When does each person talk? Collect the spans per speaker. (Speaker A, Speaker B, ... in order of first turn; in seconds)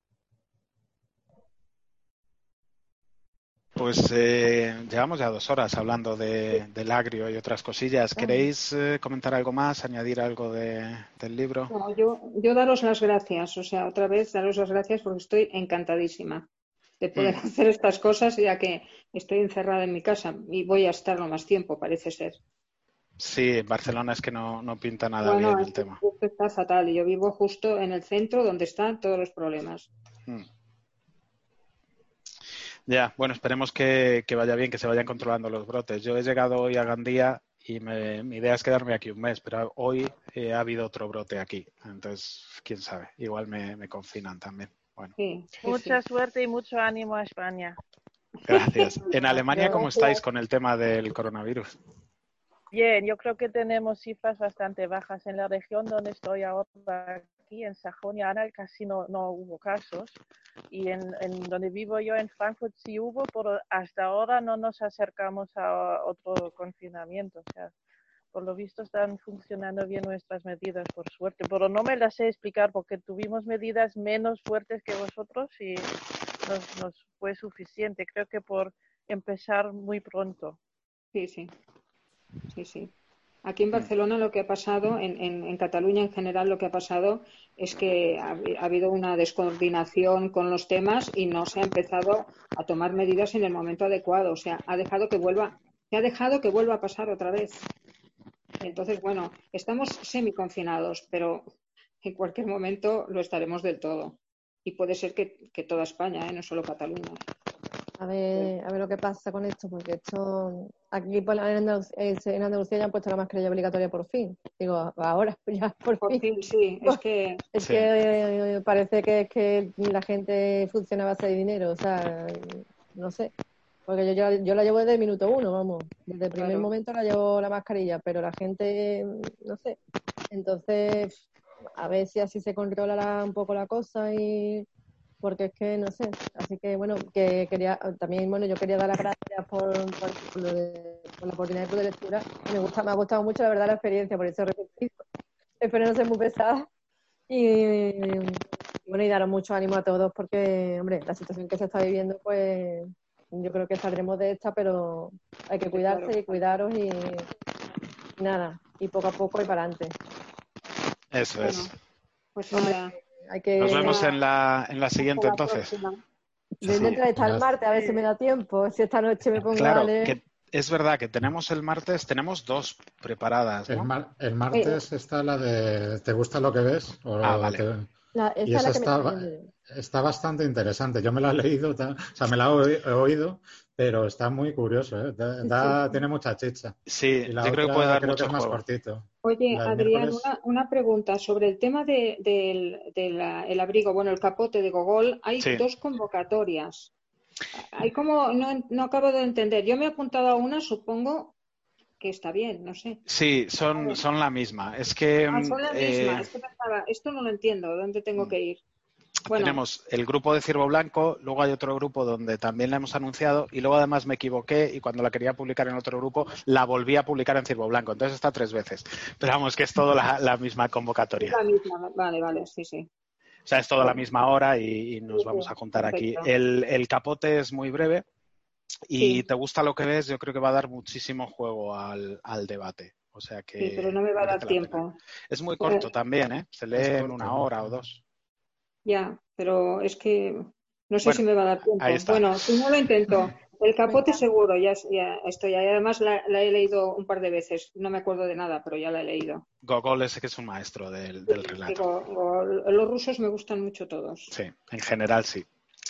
Speaker A: 3.8-11.7, 23.2-26.0, 32.9-45.2, 48.4-51.7, 117.6-117.9, 161.1-161.7, 163.6-165.8, 166.7-167.0, 169.5-173.9, 177.2-177.7, 186.9-188.6, 195.4-195.7, 203.1-206.3, 209.3-221.4, 223.5-228.1, 228.9-238.0, 241.0-242.7, 249.6-251.8, 254.3-255.5
Speaker B: 11.7-16.5, 17.0-22.4, 25.2-29.9, 45.2-46.0, 48.5-50.2, 81.1-81.5, 82.5-82.9, 83.5-97.7, 98.6-101.5, 102.0-107.2, 116.0-117.4, 126.4-126.7, 155.7-156.2, 161.4-161.7, 162.3-162.9, 163.6-164.2, 165.0-166.0, 189.2-196.9, 197.6-201.4, 202.0-203.0, 203.8-204.0, 205.3-208.6, 209.3-209.6, 221.2-222.9, 225.1-226.3, 229.0-229.2, 233.6-234.9, 235.6-235.9, 238.8-249.4, 251.3-254.3
Speaker C: 45.6-47.8, 52.7-60.2, 60.7-67.7, 68.3-75.9, 76.5-80.6, 167.8-168.1
Speaker D: 108.0-116.2, 117.5-123.3, 123.9-129.8, 130.3-131.2, 131.8-134.7, 135.2-145.0, 145.6-146.7, 147.3-157.3, 158.2-159.9, 162.5-164.1, 166.6-170.2, 174.5-174.8, 178.2-179.5, 185.4-186.0, 243.9-244.2
Speaker E: 166.7-167.5, 173.7-177.9, 178.4-190.3, 236.8-237.7